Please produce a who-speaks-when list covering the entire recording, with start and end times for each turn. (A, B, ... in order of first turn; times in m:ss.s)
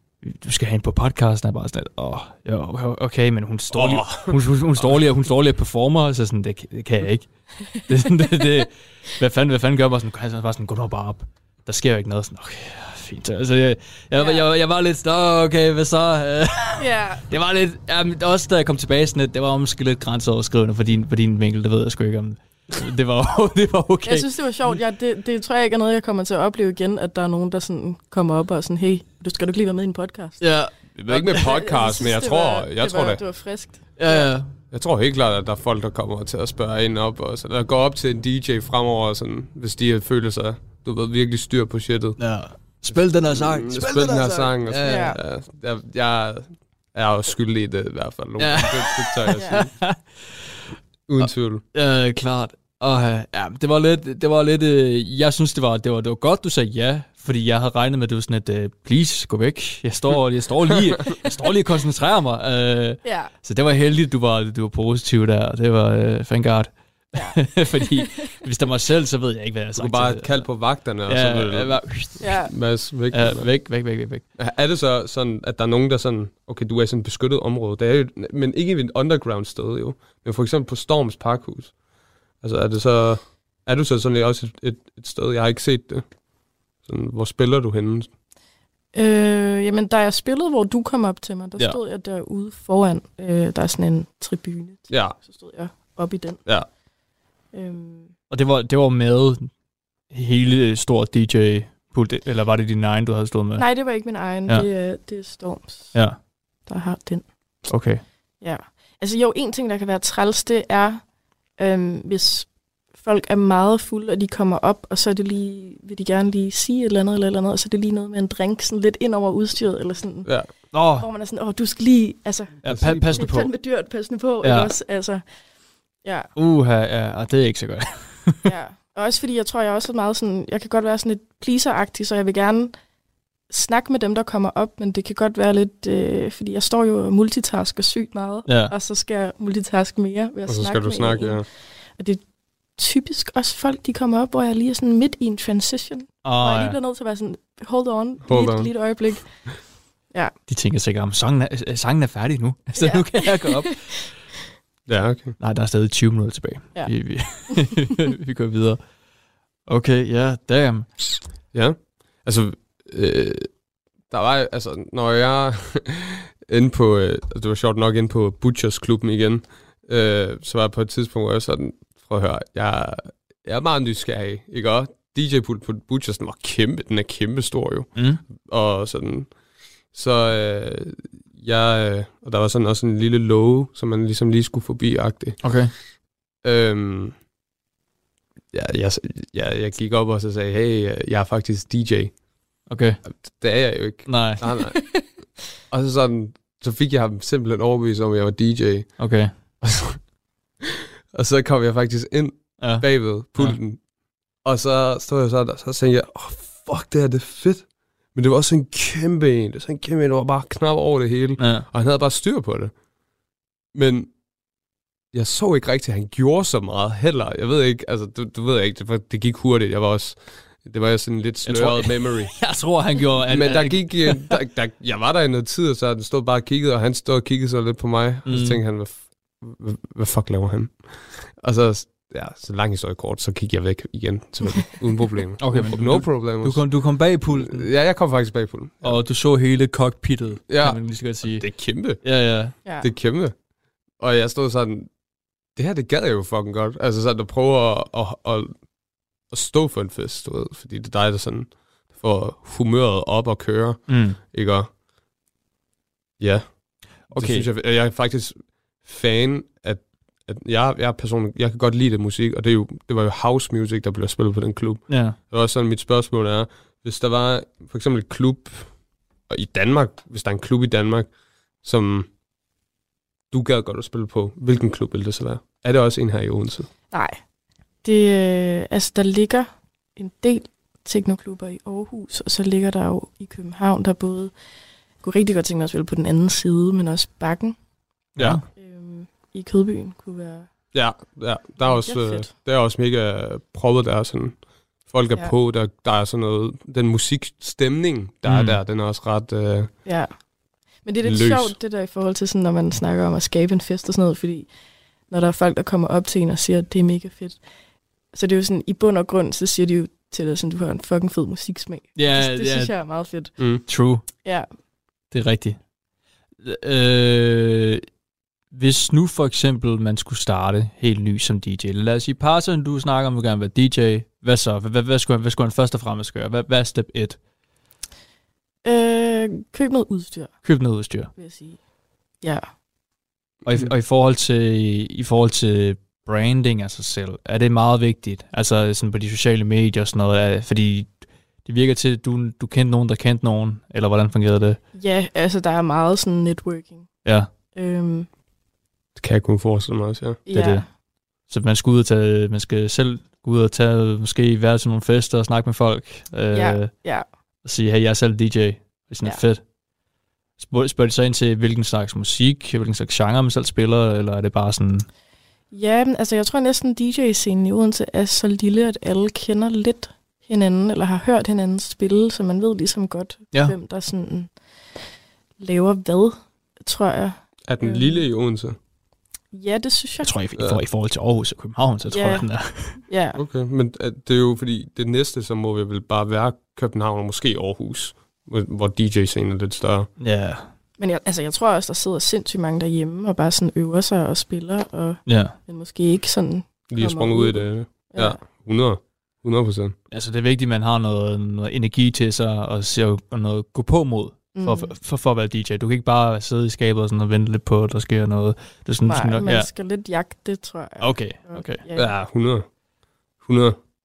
0:00.2-0:24.3 A
0:03.7-0:05.0 B
0:07.7-0:08.2 C
0:14.2-0:14.4 C
0:16.8-0:17.2 C
0:24.0-0:30.4 C
0:30.4-0:31.6 A
0:31.1-0:33.2 B
0:31.4-0:34.4 C
0:34.0-0:34.5 A
0:34.7-0:42.2 B
0:42.2-0:45.1 A
0:42.7-0:49.7 B
0:44.9-0:45.2 C
0:48.4-0:50.6 A
0:49.4-0:49.7 C
0:51.1-0:51.6 B
0:51.2-1:12.4 A
1:03.0-1:03.3 C
1:07.2-1:08.2 C
1:09.8-1:13.8 B
1:12.2-1:12.5 C
1:13.1-1:14.2 A
1:14.4-1:21.8 B
1:22.4-1:26.1 B
1:26.8-1:28.1 B
1:28.9-1:36.4 C
1:34.9-1:35.2 B
1:37.5-1:38.1 C
1:38.3-1:39.5 A
1:40.1-1:44.7 A
1:43.6-1:47.6 C
1:45.9-1:46.2 A
1:47.7-1:48.0 A
1:48.4-2:05.4 C
2:00.2-2:00.5 B
2:00.7-2:01.1 A
2:02.6-2:04.7 A
2:02.6-2:03.3 B
2:06.0-2:06.3 C
2:06.4-2:08.5 A
2:08.4-2:12.8 C
2:13.5-2:22.2 C
2:18.5-2:18.7 A
2:20.5-2:21.5 B
2:22.8-2:29.5 C
2:26.2-2:26.8 A
2:28.2-2:29.4 B
2:30.5-2:34.2 A
2:32.8-2:33.8 C
2:34.9-2:35.4 B
2:35.4-2:38.8 A
2:39.7-2:41.2 A
2:41.5-2:43.6 B
2:44.1-3:05.7 B
2:58.0-2:58.2 A
3:05.4-3:05.7 A
3:06.4-3:07.2 B
3:08.5-3:12.2 B
3:12.7-3:13.0 A
3:13.0-3:20.1 B
3:14.1-3:14.4 A
3:14.5-3:15.1 C
3:19.0-3:19.3 A
3:21.1-3:23.8 B
3:22.6-3:23.6 A
3:24.4-3:32.8 B
3:31.4-3:31.7 A
3:33.7-3:34.1 B
3:35.1-3:42.5 B
3:41.4-3:44.3 A
3:43.3-3:59.0 B
3:48.3-3:48.6 A
3:55.4-3:57.7 A
3:58.8-4:02.6 A
4:00.5-4:03.4 B
4:04.0-4:04.9 B
4:05.5-4:08.7 B
4:09.2-4:14.7 B
4:13.9-4:14.2 A
4:16.2-4:32.1 B
4:17.1-4:17.5 A
4:24.9-4:25.2 A
4:33.3-4:36.7 B
4:36.9-4:37.2 C
4:37.8-4:44.4 C
4:45.0-4:47.6 C
4:48.2-4:48.4 A
4:48.6-4:50.5 C
4:50.7-4:59.8 B
4:51.6-4:52.3 C
4:58.2-4:58.6 A
4:59.8-5:00.2 C
5:00.8-5:04.6 C
5:01.0-5:01.6 B
5:05.1-5:07.5 C
5:08.1-5:13.4 C
5:12.0-5:12.8 A
5:13.4-5:13.6 B
5:13.7-5:14.1 A
5:14.2-5:14.5 C
5:15.1-5:15.6 A
5:16.4-5:17.8 A
5:18.5-5:27.2 A
5:28.6-5:30.4 C
5:30.4-5:31.1 A
5:31.1-5:31.6 C
5:32.2-5:32.5 C
5:33.5-5:44.6 A
5:44.7-5:48.1 C
5:47.0-5:47.3 A
5:49.0-5:50.2 B
5:50.3-5:50.7 C
5:50.3-5:56.9 A
5:56.3-5:57.1 C
5:57.4-5:59.5 A
6:00.4-6:04.9 A
6:05.5-6:14.8 C
6:15.4-6:18.0 C
6:17.5-6:18.6 B
6:19.3-6:20.2 C
6:20.0-6:22.8 A
6:21.9-6:23.2 C
6:23.2-6:29.9 B
6:30.0-6:30.5 A
6:30.8-6:38.2 C
6:35.1-6:35.4 A
6:36.7-6:39.8 B
6:39.9-6:49.5 A
6:44.4-6:44.7 C
6:48.9-6:52.0 C
6:50.8-6:51.6 A
6:51.7-6:52.6 B
6:53.2-6:53.6 B